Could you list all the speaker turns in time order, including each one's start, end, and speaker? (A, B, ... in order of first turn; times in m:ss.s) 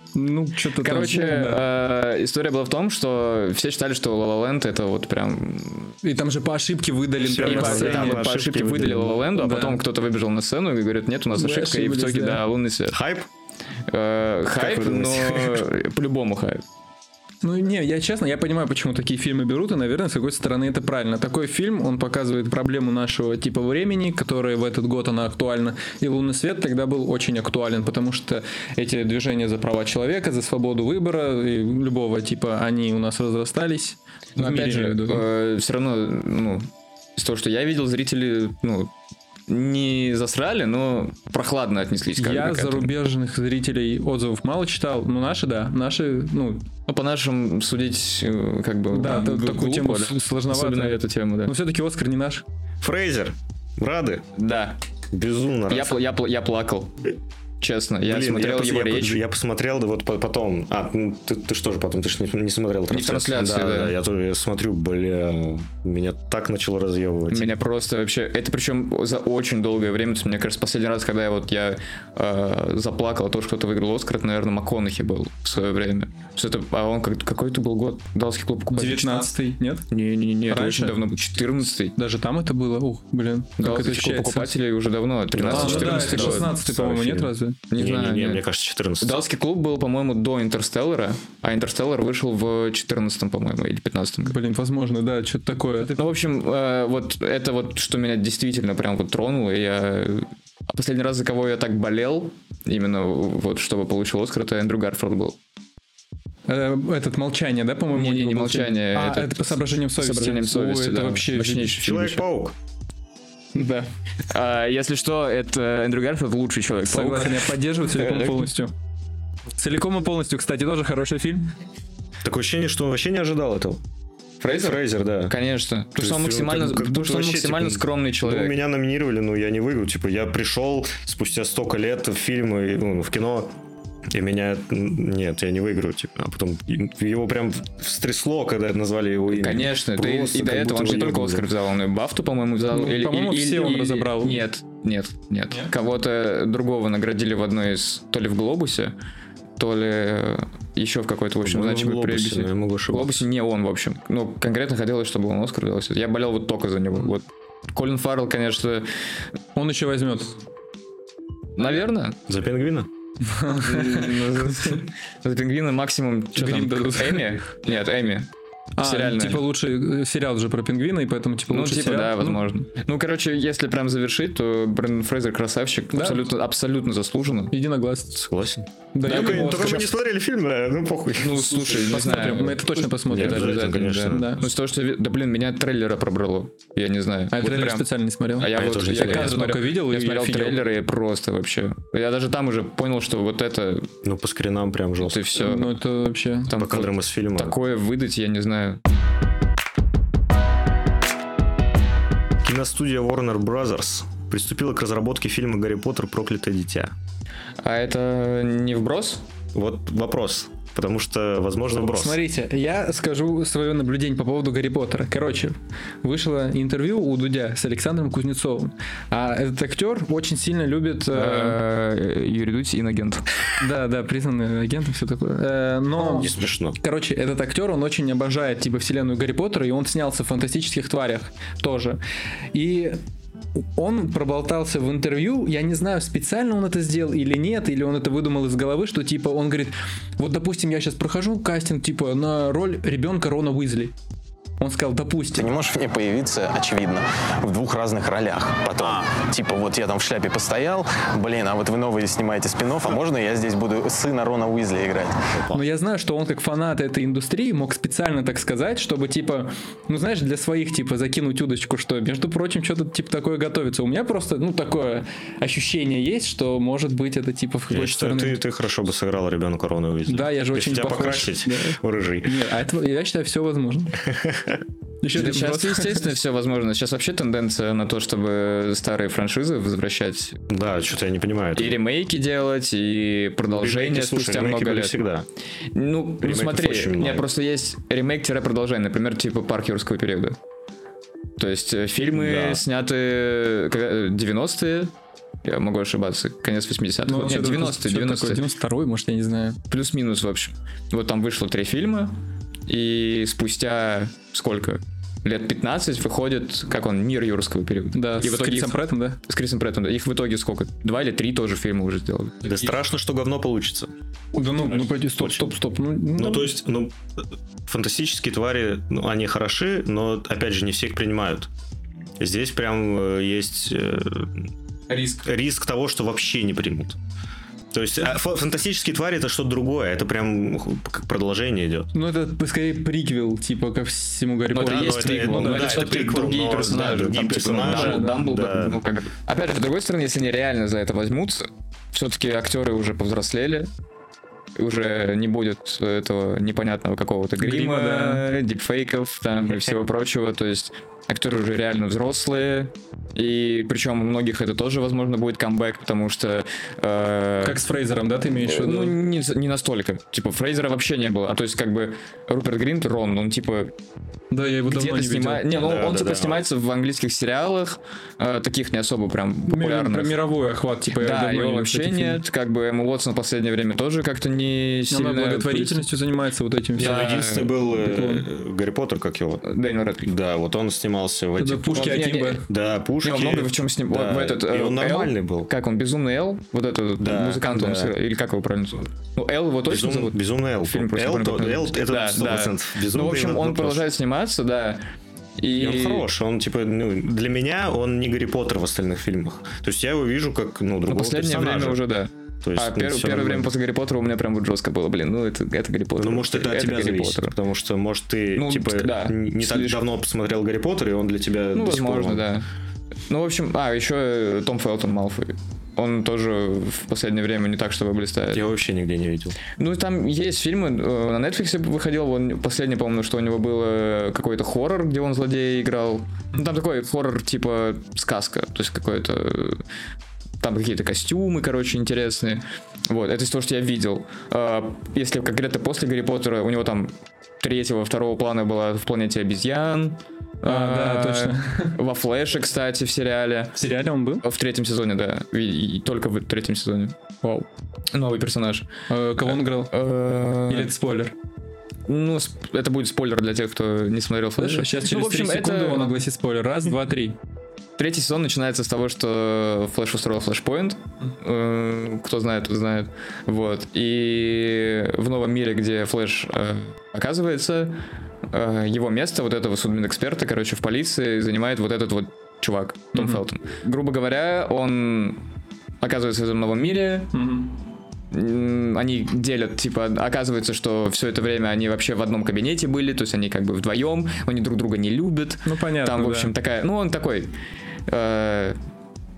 0:00.1-0:01.6 A
0:00.8-0:06.0 B
0:06.0-0:08.3 A
0:07.2-0:09.2 C
0:07.4-0:13.0 B
0:09.3-0:09.8 A
0:11.3-0:12.4 A
0:12.9-0:13.3 C
0:13.9-0:16.6 B
0:14.6-0:15.6 C
0:17.4-0:35.2 A
0:34.4-0:38.9 B
0:39.5-0:42.9 B
0:42.2-0:46.7 A
0:46.9-0:51.5 B
0:48.9-0:52.4 A
0:52.8-0:54.2 C
0:54.4-0:54.8 B
0:55.1-0:56.0 C
0:55.7-0:59.2 B
0:58.1-1:07.5 C
1:02.9-1:03.9 B
1:07.3-1:19.3 B
1:18.7-1:19.9 A
1:19.9-1:22.0 B
1:20.5-1:21.0 A
1:21.9-1:24.5 A
1:23.6-1:26.5 B
1:25.3-1:29.2 C
1:25.4-1:27.6 A
1:27.7-1:28.4 B
1:29.0-1:34.4 B
1:34.2-1:36.0 A
1:35.8-1:45.4 B
1:46.5-1:52.1 A
1:47.9-1:52.2 B
1:51.8-1:52.6 C
1:53.5-1:53.9 A
1:54.3-1:58.5 B
1:56.9-1:58.7 A
1:59.6-2:01.5 A
2:02.2-2:03.8 C
2:04.4-2:08.5 B
2:04.5-2:05.3 C
2:06.0-2:13.6 C
2:14.1-2:21.5 C
2:19.3-2:28.9 B
2:22.7-2:24.4 A
2:29.6-2:38.9 B
2:31.4-2:33.2 C
2:39.6-2:40.4 A
2:41.6-2:42.2 B
2:42.3-2:42.9 C
2:43.2-2:44.8 A
2:43.5-2:49.4 B
2:46.3-2:47.4 A
2:48.8-2:52.6 A
2:51.5-2:57.5 B
2:55.9-2:56.2 A
2:57.5-2:58.2 A
2:58.2-3:01.9 C
2:58.9-2:59.8 A
2:59.0-2:59.9 B
3:01.2-3:13.9 B
3:01.7-3:04.4 A
3:03.1-3:04.4 C
3:07.3-3:10.6 A
3:08.5-3:09.4 C
3:14.0-3:15.2 C
3:15.0-3:15.7 B
3:15.3-3:16.5 A
3:16.5-3:18.8 B
3:16.5-3:17.6 C
3:22.4-3:26.9 C
3:27.6-3:29.2 B
3:29.5-3:32.2 C
3:31.7-3:41.6 A
3:41.1-3:43.2 B
3:43.6-3:52.0 A
3:46.0-3:46.8 C
3:52.5-3:53.0 A
3:53.6-4:03.9 A
4:04.6-4:05.5 A
4:05.3-4:15.3 D
4:08.7-4:09.0 C
4:15.3-4:15.6 C
4:15.5-4:28.4 A
4:27.7-4:32.4 C
4:30.1-4:34.0 A
4:34.0-4:34.6 C
4:35.0-4:36.1 A
4:35.1-4:40.4 B
4:40.5-4:41.8 C
4:41.6-4:45.0 B
4:43.5-4:45.2 C
4:45.7-4:50.4 B
4:46.2-4:47.3 C
4:51.4-4:54.9 B
4:52.1-4:52.6 C
4:55.4-4:58.4 B
4:57.1-4:59.6 A
4:59.7-5:12.5 B
5:07.9-5:09.2 A
5:12.4-5:13.9 C
5:14.3-5:16.5 A
5:15.2-5:15.5 C
5:16.2-5:21.5 C
5:22.2-5:24.5 C
5:24.9-5:25.2 B
5:25.2-5:27.0 C
5:27.7-5:31.9 C
5:31.9-5:35.9 A
5:34.5-5:43.7 B
5:34.5-5:38.8 C
5:37.6-5:38.1 A
5:44.6-5:57.6 B
5:47.4-5:48.2 A
5:57.4-5:58.9 A
5:58.4-6:03.7 B
6:04.3-6:05.4 A
6:04.7-6:10.2 B
6:05.6-6:06.4 C
6:09.5-6:12.2 A
6:10.9-6:15.8 B
6:14.9-6:17.0 A
6:16.8-6:19.4 C
6:16.8-6:17.5 B
6:17.7-6:18.3 A
6:19.4-6:20.1 B
6:20.0-6:25.5 C
6:21.4-6:22.4 A
6:21.7-6:22.4 B
6:23.0-6:34.8 B
6:27.0-6:27.9 C
6:29.7-6:33.8 C
6:35.4-6:36.0 B
6:35.5-6:41.8 C
6:40.9-6:47.3 B
6:42.4-6:43.5 C
6:46.0-6:52.2 C
6:48.3-6:49.8 B
6:51.5-6:52.4 B
6:53.1-6:58.4 B
6:58.3-6:59.4 C
6:59.6-7:09.6 B
7:10.4-7:23.6 B
7:20.4-7:21.8 A
7:23.5-7:24.2 A
7:24.2-7:26.9 B
7:27.9-7:28.7 B
7:28.9-7:29.7 A
7:29.3-7:30.7 B
7:30.5-7:31.1 A
7:31.9-7:35.9 B
7:34.4-7:37.1 A
7:37.8-7:47.8 B
7:48.3-7:55.2 B
7:52.9-7:53.2 A
7:55.8-7:57.1 B
7:57.1-7:57.5 A
7:58.1-8:07.3 B
8:05.4-8:06.3 A
8:07.9-8:08.6 B